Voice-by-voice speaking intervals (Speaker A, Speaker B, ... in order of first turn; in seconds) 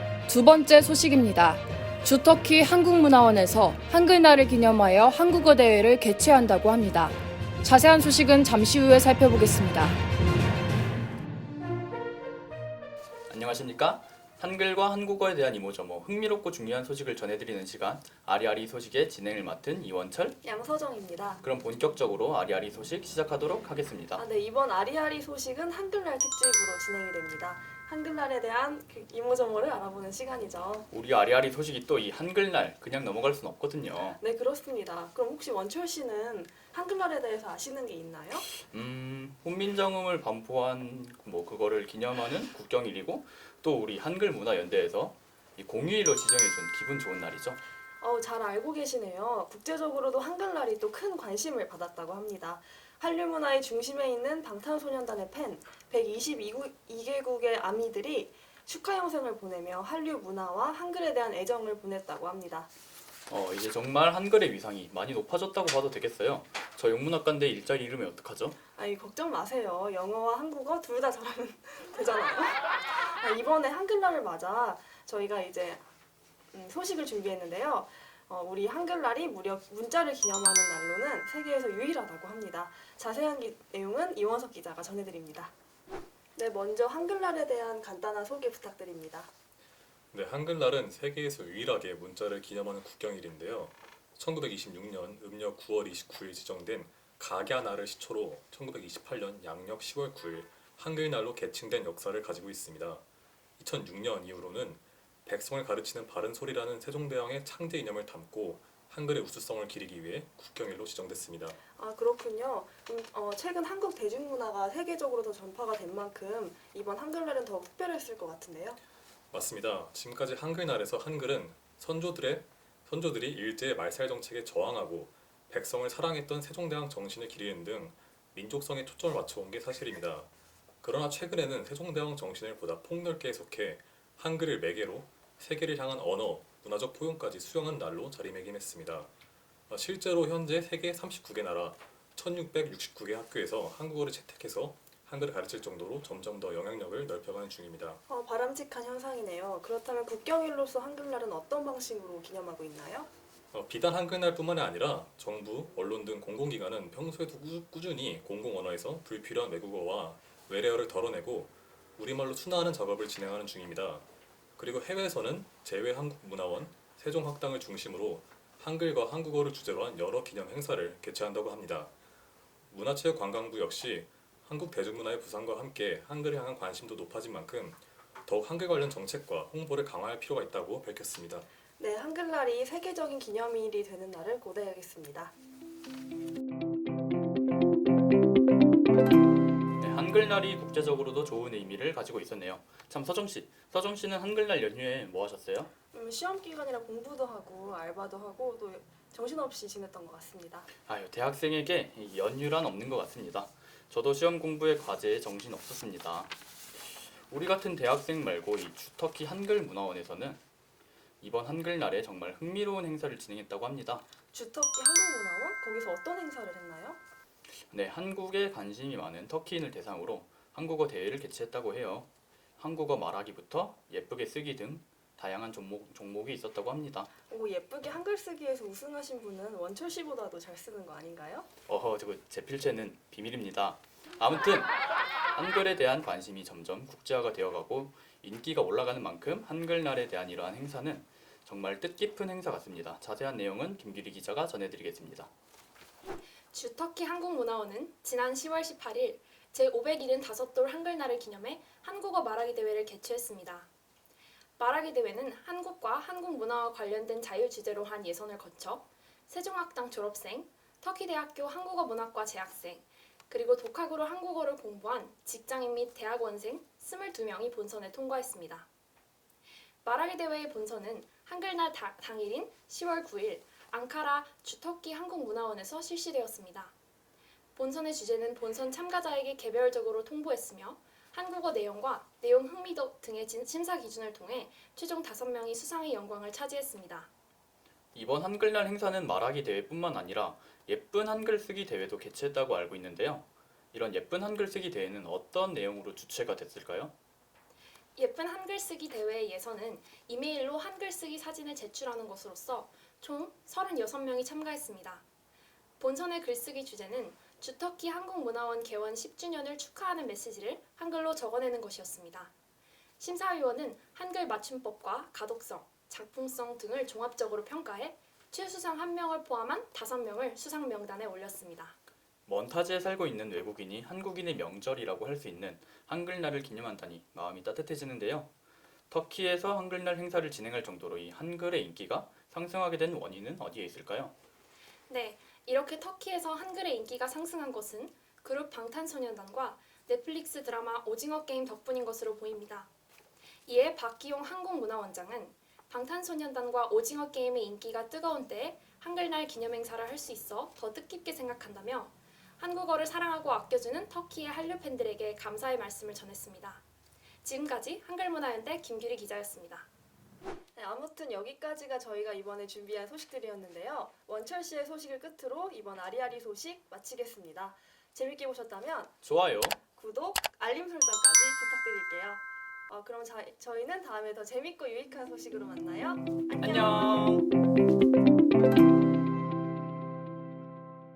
Speaker A: 0.3-10.0
Speaker B: 13.3-20.4, 21.4-24.2, 30.9-34.2, 38.5-47.6, 63.3-68.6, 189.8-195.7, 200.9-210.4, 211.2-214.1, 217.6-222.1, 222.6-227.1, 231.7-234.7, 235.3-245.3, 287.9-296.9, 322.3-328.3, 328.9-334.1, 369.0-369.6, 376.4-377.3
Speaker C: 20.4-21.4, 24.2-30.9, 34.1-38.5, 48.0-62.7, 68.8-75.8, 76.5-85.5, 86.4-89.3, 111.8-118.8, 148.1-153.1, 181.8-185.3, 195.9-200.7, 214.3-217.0, 227.3-231.5, 360.6-369.0, 369.8-376.9
Speaker D: 90.1-103.0, 103.6-111.6, 119.3-130.3, 130.8-139.1, 139.7-148.0, 153.5-164.1, 164.6-171.9, 172.7-181.5
Speaker E: 246.5-253.7, 254.6-268.7, 269.8-276.7, 277.6-287.1, 298.0-305.0, 305.8-312.3, 313.0-321.8, 334.9-342.7, 343.5-356.6, 357.2-359.7